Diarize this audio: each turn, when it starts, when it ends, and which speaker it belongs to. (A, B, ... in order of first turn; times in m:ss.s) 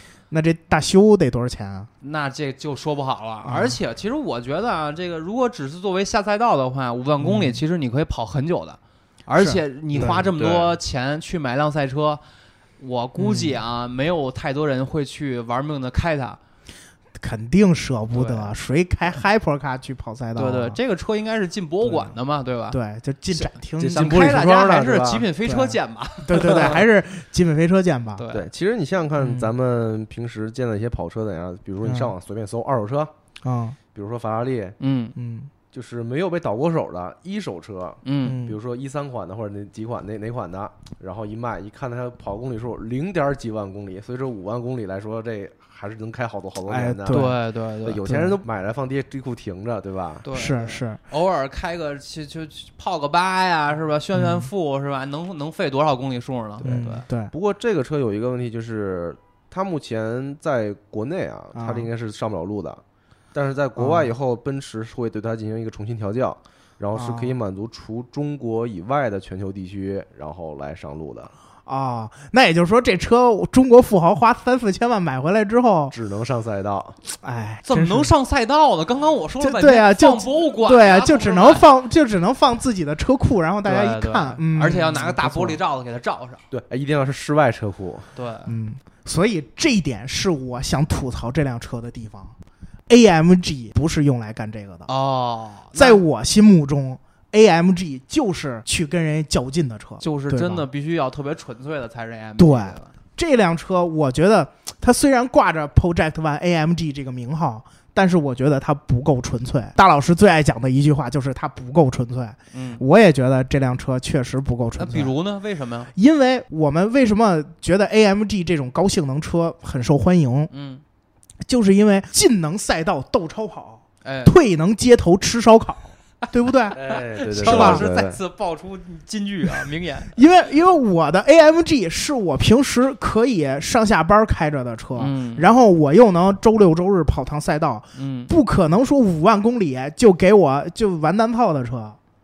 0:00.3-0:01.9 A
0:02.0-0:12.2 B
0:03.4-0:03.8 A
0:07.2-0:07.6 A
0:09.4-0:10.2 A
0:09.9-0:10.8 C
0:12.8-0:16.4 B
0:13.2-0:13.6 A
0:17.2-0:20.8 A
0:18.1-0:18.5 B
0:20.4-0:22.8 B
0:21.8-0:22.1 A
0:22.7-0:24.6 A
0:23.3-0:26.8 B
0:23.8-0:25.3 C
0:25.4-0:28.2 A
0:28.2-0:28.5 B
0:28.3-0:33.1 C
0:29.2-0:29.5 A
0:31.8-0:32.1 A
0:33.4-0:33.8 A
0:33.9-0:34.8 C
0:34.8-0:35.1 B
0:35.2-0:35.5 A
0:35.7-0:50.2 C
0:38.0-0:38.4 B
0:38.2-0:38.6 A
0:46.7-0:47.4 A
0:47.1-0:48.1 B
0:48.0-0:48.4 A
0:50.2-0:57.0 B
0:50.3-0:51.0 A
0:54.1-0:54.5 A
0:56.6-0:57.3 A
0:57.3-1:02.8 C
1:01.5-1:01.9 A
1:03.3-1:11.3 C
1:03.8-1:04.1 A
1:06.9-1:07.4 A
1:11.6-1:15.9 A
1:15.9-1:17.0 C
1:17.2-1:18.1 A
1:17.6-1:21.7 B
1:19.4-1:25.6 A
1:23.6-1:26.4 B
1:26.5-1:28.1 C
1:28.1-1:28.5 B
1:28.4-1:32.3 A
1:32.9-1:34.9 A
1:34.9-1:36.0 B
1:35.7-1:40.6 A
1:40.0-1:42.9 B
1:42.4-1:55.1 A
1:52.5-1:52.8 B
1:54.8-1:55.9 B
1:55.9-2:00.5 A
2:00.5-2:00.8 B
2:01.4-2:06.8 A
2:04.0-2:04.3 B
2:06.7-2:08.2 C
2:06.8-2:10.1 B
2:07.4-2:07.8 A
2:10.1-2:22.0 A
2:15.0-2:15.4 B
2:18.0-2:18.3 B